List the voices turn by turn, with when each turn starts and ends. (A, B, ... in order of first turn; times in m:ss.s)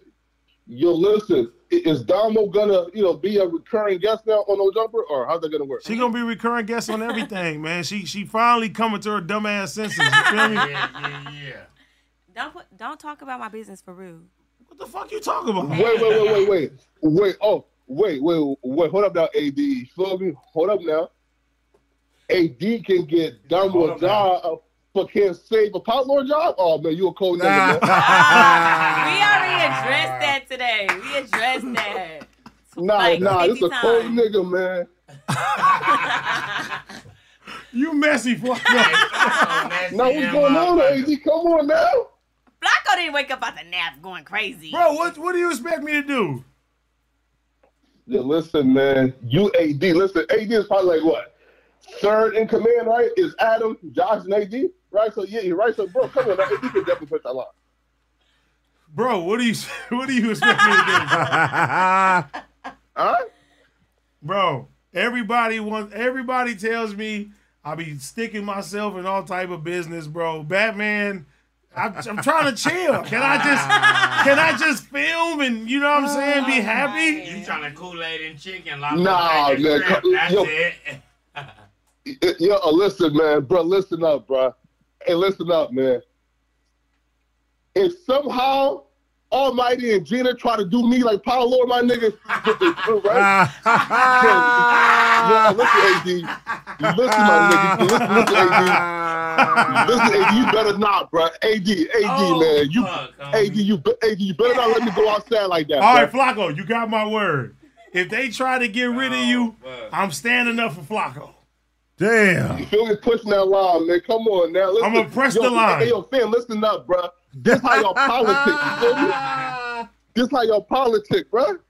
0:00.7-0:05.8 A
0:05.8-0:10.7 B
0:05.8-0:06.1 C
0:10.0-0:11.0 C
0:10.4-0:11.7 D
0:12.3-0:14.3 C
0:14.6-0:16.3 B
0:15.6-0:21.1 A
0:15.7-0:16.5 C
0:16.2-0:16.5 D
0:22.3-0:27.8 A
0:23.5-0:24.3 E
0:27.3-0:30.1 E
0:27.9-0:34.2 C
0:28.6-0:29.0 D
0:32.8-0:34.9 A
0:33.2-0:33.4 E
0:35.4-0:36.7 C
0:35.7-0:36.2 D
0:37.7-0:39.4 B
0:38.7-0:39.7 C
0:38.7-0:41.1 D
0:39.9-0:42.1 A
0:42.6-0:44.8 C
0:44.7-0:46.4 B
0:48.1-0:51.3 A
0:51.8-0:57.5 A
0:58.9-1:01.4 B
1:00.5-1:01.1 C
1:01.1-1:02.2 E
1:03.0-1:03.3 A
1:04.2-1:17.2 B
1:13.2-1:14.2 D
1:13.4-1:14.5 C
1:13.7-1:14.2 E
1:15.9-1:17.6 C
1:17.2-1:21.5 D
1:18.9-1:20.5 A
1:22.0-1:26.0 A
1:27.7-1:33.3 A
1:32.3-1:32.6 D
1:33.1-1:35.7 E
1:33.7-1:34.0 D
1:34.1-1:34.7 A
1:35.2-1:36.3 A
1:36.3-1:36.7 D
1:36.8-1:38.8 A
1:36.8-1:40.6 E
1:37.8-1:38.8 B
1:39.4-1:39.8 B
1:39.8-1:46.1 A
1:42.0-1:43.6 D
1:44.4-1:45.2 C
1:45.8-1:51.4 B
1:48.9-1:49.9 D
1:52.0-1:52.7 E
1:52.5-1:59.2 A
1:54.8-1:56.0 B
1:57.4-1:59.8 E
2:00.1-2:01.6 A